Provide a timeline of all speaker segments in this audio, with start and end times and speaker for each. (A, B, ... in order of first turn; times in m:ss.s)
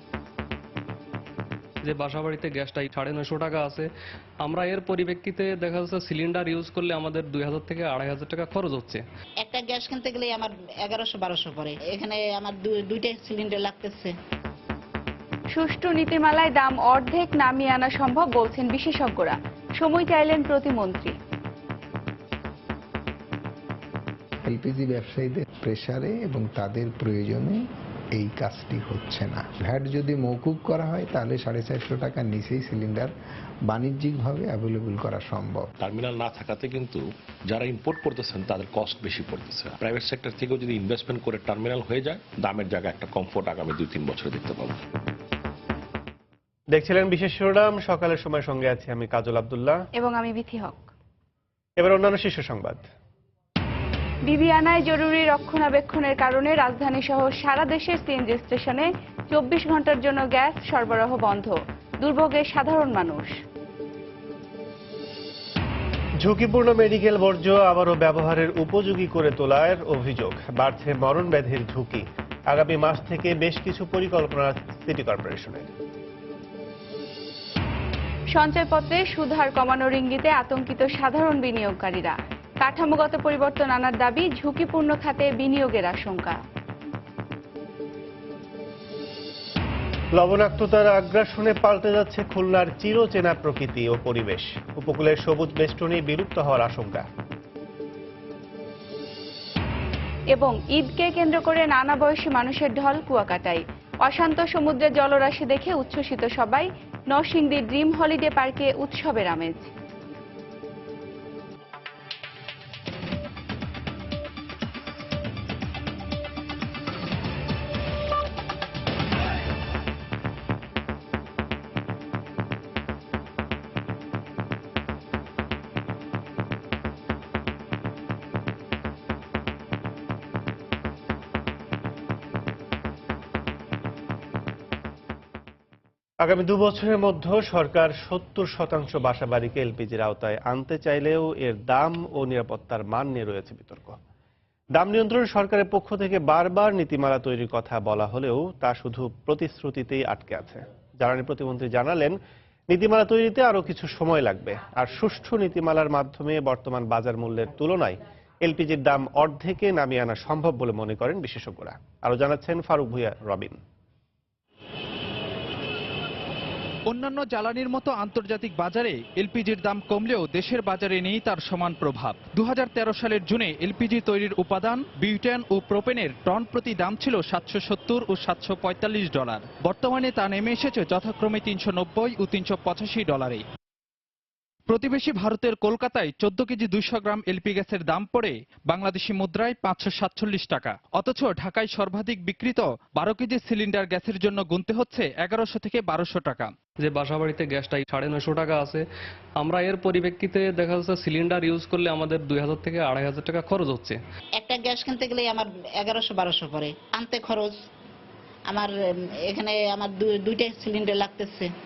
0:01.9-0:03.9 A
0:04.4-0:09.0 A
0:09.4-0:14.1 B
0:15.6-0:21.2 C
0:24.4-0:27.6 D
0:28.2-0:33.1 D
0:33.7-0:35.7 D
0:35.8-0:44.8 E
0:46.7-0:49.8 F
0:50.0-0:50.9 C
0:51.8-0:52.9 F
0:54.3-1:03.3 C
1:06.2-1:15.7 F
1:18.4-1:26.4 C
1:30.2-1:37.1 F
1:40.3-1:49.7 C
2:16.2-2:24.0 F
2:24.8-2:32.2 F
2:32.7-2:43.6 F
2:46.9-3:03.4 G
3:04.7-3:16.5 G
3:16.8-3:18.8 A
3:19.4-3:24.0 A
3:24.4-3:27.6 B
3:29.3-3:31.5 B